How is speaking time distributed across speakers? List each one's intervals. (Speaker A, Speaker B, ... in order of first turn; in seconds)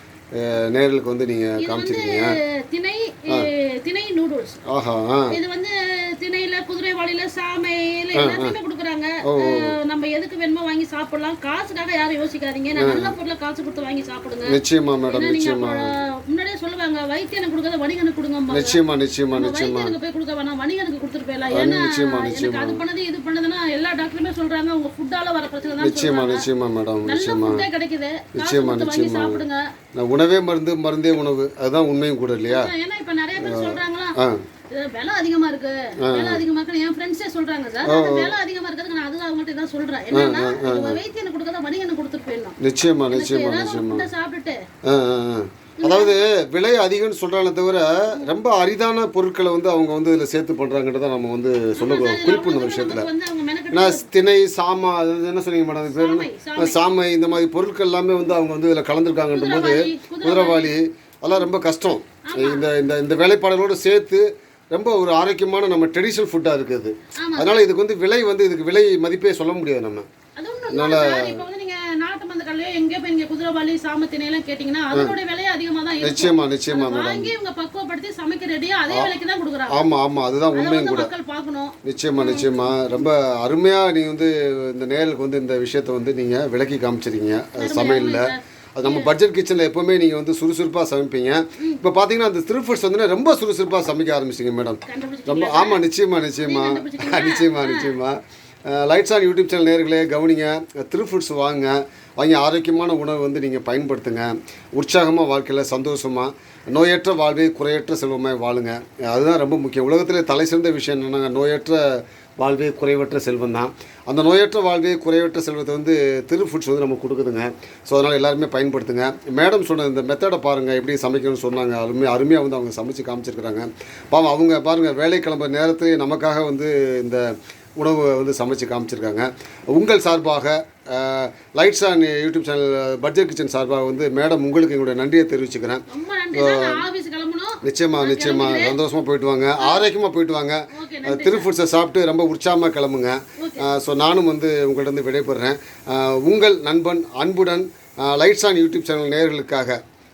Speaker A: 0.3-2.4, 4.7-5.3, 8.1-8.6, 9.2-9.7, 12.8-13.1, 14.5-15.8, 18.5-19.9, 21.5-22.8, 25.8-27.6, 28.4-29.4, 30.0-32.7, 33.4-34.4, 36.0-36.4, 37.8-38.3, 40.1-41.0, 42.6-44.1, 44.9-53.1, 53.7-70.1, 70.7-71.4, 76.0-77.3, 79.7-81.1, 81.8-127.2, 127.8-135.8, 136.3-136.8, 137.6-149.8
Speaker B: 1.6-4.6, 5.3-14.6, 15.1-18.8, 19.3-26.4, 27.0-29.6, 32.5-34.2, 34.7-42.6, 43.1-44.6, 45.8-46.2, 51.8-54.1, 55.9-56.8, 59.3-60.7, 62.2-62.6, 67.2-67.5, 70.4-79.8, 80.5-82.8, 87.6-89.1, 94.9-95.8, 96.4-98.0, 135.9-138.8, 139.6-139.9, 140.7-141.5, 143.4-143.7